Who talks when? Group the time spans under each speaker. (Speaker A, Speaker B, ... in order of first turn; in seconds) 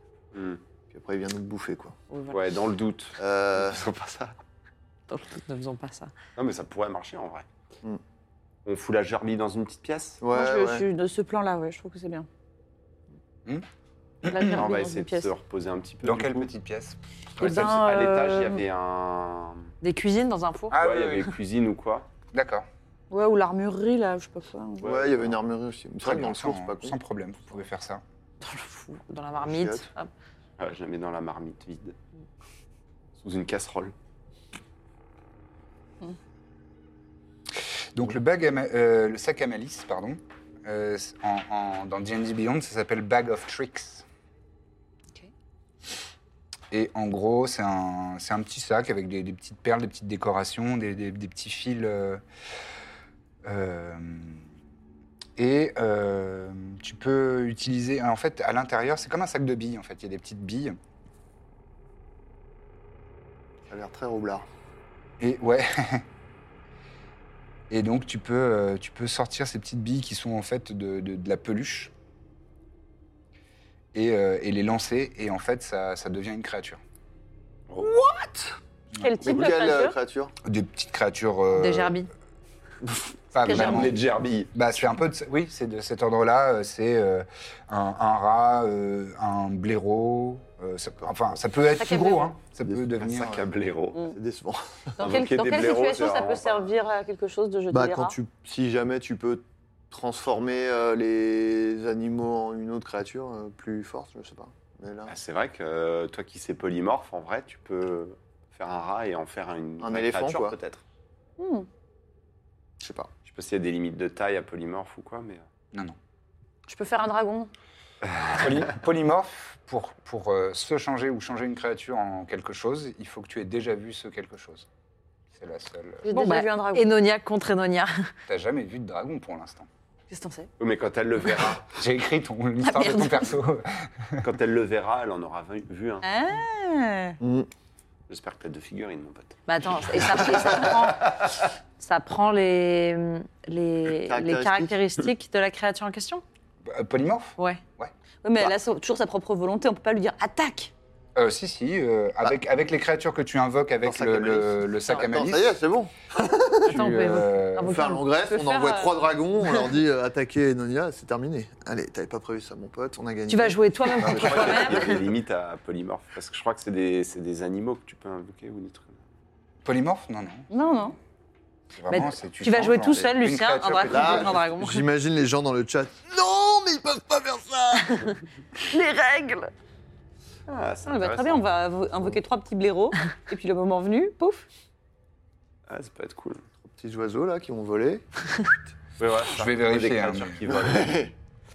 Speaker A: 0.3-0.6, 2.3-4.4, 6.4-7.5, 8.7-10.2, 14.5-16.5, 17.4-19.7, 20.8-22.1, 24.8-25.4, 30.6-32.0, 33.2-33.9, 83.4-84.5, 93.0-94.1, 95.0-96.8, 105.1-110.8, 113.3-115.5, 130.6-131.7, 134.2-136.1, 138.1-139.4, 139.9-140.9, 164.0-169.0, 180.5-181.5, 185.7-186.4, 189.0-191.1
Speaker B: 0.9-2.0, 3.2-3.8, 10.2-10.9, 24.8-27.0, 29.4-29.9, 63.7-64.5, 79.2-80.3, 92.7-93.4, 94.1-94.9, 97.7-105.1, 109.8-110.6, 112.8-113.1, 137.2-137.5, 144.0-144.8, 153.8-165.2, 173.9-178.2, 186.7-188.6, 190.5-191.1
Speaker C: 2.1-2.4, 5.1-6.1, 19.8-20.8, 28.4-30.1, 81.5-82.1, 91.9-92.3, 126.1-128.1, 139.5-141.1, 141.8-146.2, 156.7-157.9, 163.3-164.9, 171.9-174.8
Speaker D: 10.3-12.3, 14.2-15.3, 17.4-18.6, 23.1-24.9, 77.8-80.0, 83.5-83.9, 95.0-98.2, 111.4-111.7, 116.7-117.5, 126.0-126.9, 130.1-130.5, 132.8-133.1, 136.0-137.2, 148.2-150.7, 157.7-158.9, 170.5-171.0, 178.7-179.5, 180.8-184.5
Speaker E: 14.3-14.6, 16.0-17.8, 20.7-21.3, 22.3-22.7, 26.0-28.0, 37.9-44.0, 46.7-52.2, 53.4-54.5, 55.4-60.8, 65.2-66.1, 67.7-71.9, 73.9-76.8, 80.4-82.0, 83.3-84.0, 84.5-93.3, 118.3-124.7, 125.3-126.1, 128.3-129.7, 131.7-134.3, 146.7-148.5, 151.2-155.6, 156.7-157.8, 169.6-170.5, 171.7-174.4, 189.3-190.4